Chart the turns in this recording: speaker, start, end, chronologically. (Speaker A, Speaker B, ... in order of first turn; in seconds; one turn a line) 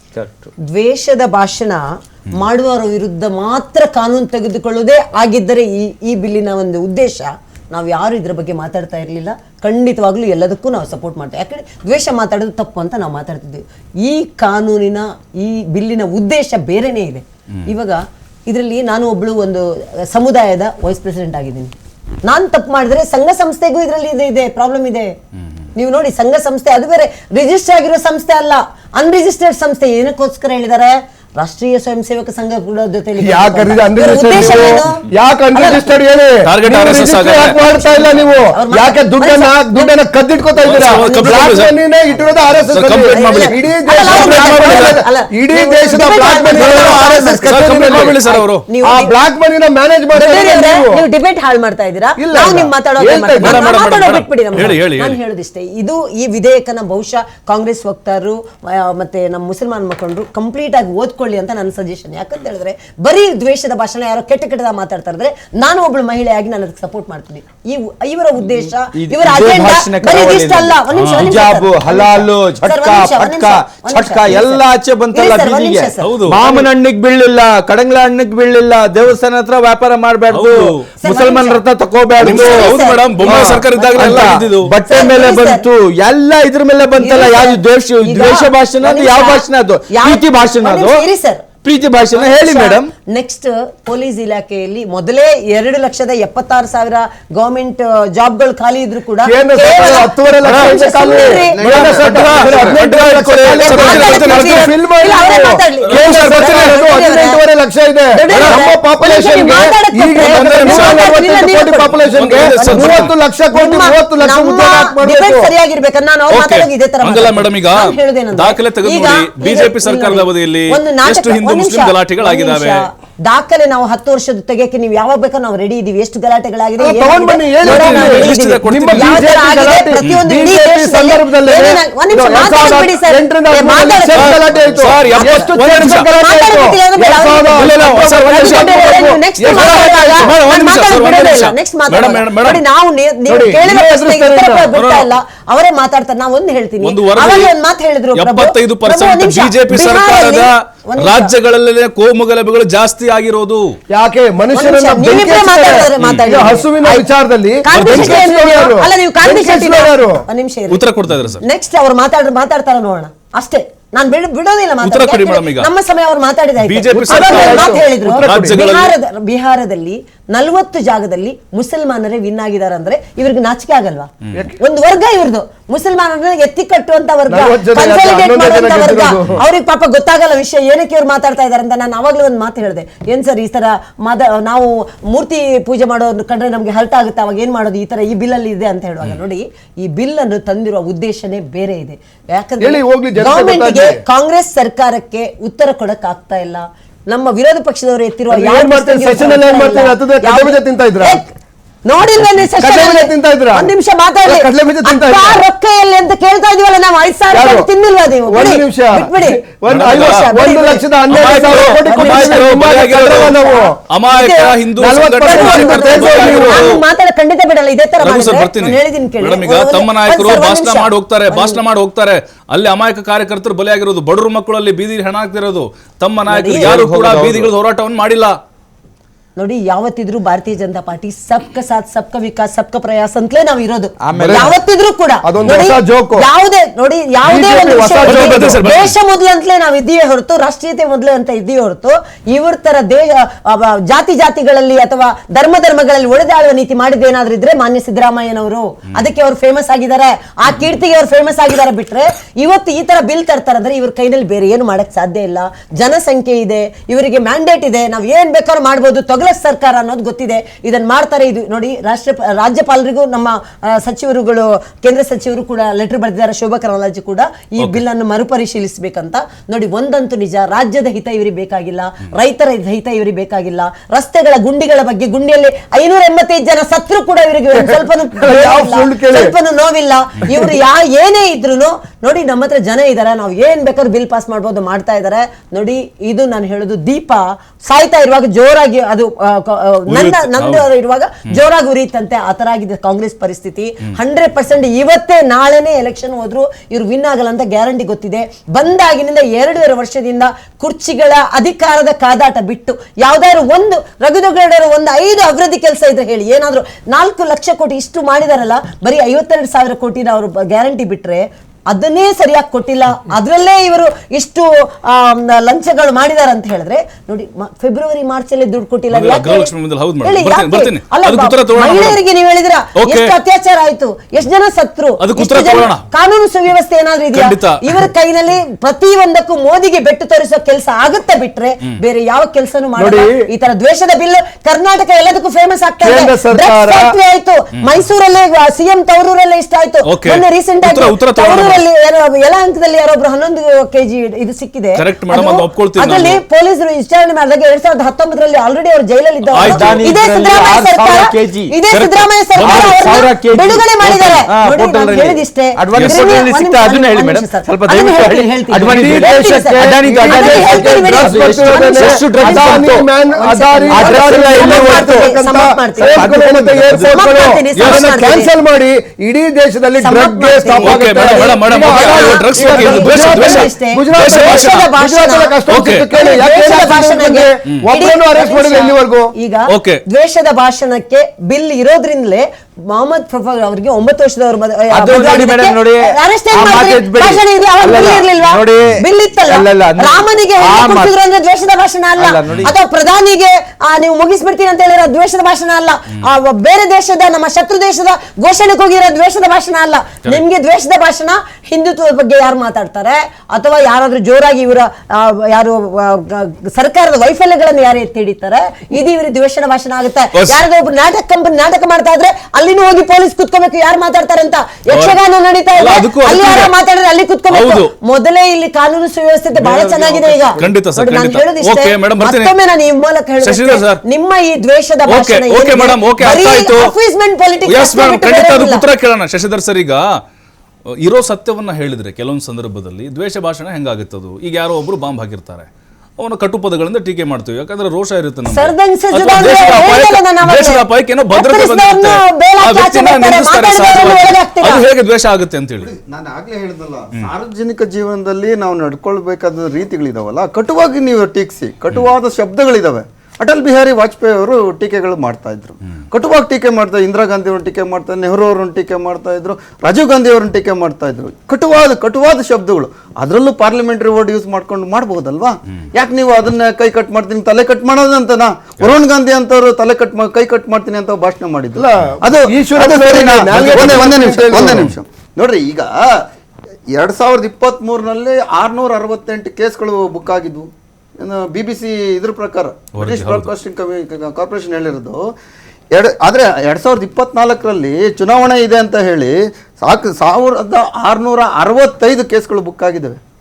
Speaker A: 0.7-21.7
Speaker A: 22.2-25.1
Speaker A: 25.7-35.0
Speaker B: 33.1-48.2
Speaker A: 35.5-35.9
Speaker C: 36.4-37.6
Speaker A: 37.5-40.0
Speaker C: 40.6-41.8
Speaker A: 40.7-41.6
Speaker C: 42.7-44.9
Speaker A: 43.1-49.1
Speaker D: 44.6-45.0
Speaker C: 46.5-48.6
Speaker B: 48.8-51.0
Speaker A: 50.1-76.1
Speaker B: 52.2-53.7
Speaker C: 53.4-55.1
Speaker D: 68.4-91.0
Speaker C: 70.9-71.3
Speaker C: 76.0-76.6
Speaker C: 80.3-80.8
Speaker A: 81.0-81.6
Speaker A: 82.2-85.6
Speaker C: 82.2-84.7
Speaker A: 87.0-91.5
Speaker D: 91.6-92.9
Speaker A: 92.1-101.8
Speaker B: 99.2-115.5
Speaker D: 100.4-103.7
Speaker E: 101.4-102.7
Speaker C: 102.2-104.7
Speaker A: 103.6-107.4
Speaker D: 105.9-106.8
Speaker A: 108.1-112.0
Speaker C: 110.2-111.1
Speaker C: 112.1-113.1
Speaker A: 112.7-135.5
Speaker C: 116.3-122.8
Speaker B: 126.8-140.4
Speaker C: 127.6-129.3
Speaker C: 134.1-136.1
Speaker A: 136.1-151.3
Speaker C: 137.5-142.6
Speaker B: 143.3-144.7
Speaker C: 144.7-145.1
Speaker C: 146.8-147.5
Speaker C: 148.1-153.7
Speaker B: 153.9-160.2
Speaker A: 154.5-157.1
Speaker A: 157.6-160.9
Speaker C: 157.7-158.2
Speaker C: 160.7-161.4
Speaker A: 161.4-201.3
Speaker C: 164.8-165.7
Speaker C: 166.6-168.9
Speaker B: 166.9-168.6
Speaker B: 177.3-179.4
Speaker B: 192.6-194.0
Speaker B: 198.3-201.2
Speaker A: 201.8-214.6
Speaker B: 202.6-203.7
Speaker B: 204.2-205.4
Speaker B: 207.3-207.7
Speaker B: 208.2-213.8
Speaker C: 209.7-210.3
Speaker C: 211.1-213.3
Speaker C: 213.9-216.8
Speaker B: 214.8-216.7
Speaker A: 215.2-221.6
Speaker C: 218.0-228.4
Speaker A: 226.3-226.8
Speaker D: 226.5-227.5
Speaker A: 229.3-366.0
Speaker D: 234.0-234.5
Speaker B: 234.1-234.5
Speaker B: 235.2-236.3
Speaker B: 237.2-238.6
Speaker C: 238.0-238.9
Speaker B: 278.2-279.3
Speaker C: 289.9-290.7
Speaker C: 318.9-322.0
Speaker C: 322.7-323.1
Speaker C: 325.0-325.8
Speaker C: 327.1-327.6
Speaker B: 332.8-333.3
Speaker B: 335.8-336.9
Speaker C: 339.8-341.6
Speaker C: 344.8-346.2
Speaker C: 349.3-349.9
Speaker D: 349.4-362.9
Speaker C: 352.3-353.0
Speaker C: 355.7-356.1
Speaker B: 358.7-379.1
Speaker D: 363.7-365.1
Speaker D: 365.8-366.8
Speaker C: 366.7-367.0
Speaker A: 366.9-368.3
Speaker C: 367.6-367.9
Speaker A: 369.8-428.6
Speaker C: 370.6-374.7
Speaker C: 375.5-375.9
Speaker C: 379.5-379.8
Speaker D: 384.7-390.9
Speaker D: 391.9-392.5
Speaker C: 415.6-416.5
Speaker C: 417.3-417.7
Speaker C: 419.4-422.3
Speaker C: 423.2-423.8
Speaker C: 424.9-426.7
Speaker C: 427.4-429.8
Speaker C: 430.8-445.7
Speaker A: 438.3-444.6
Speaker E: 445.6-476.0
Speaker B: 471.5-474.7
Speaker E: 476.7-485.0
Speaker C: 482.8-483.3
Speaker E: 485.7-493.0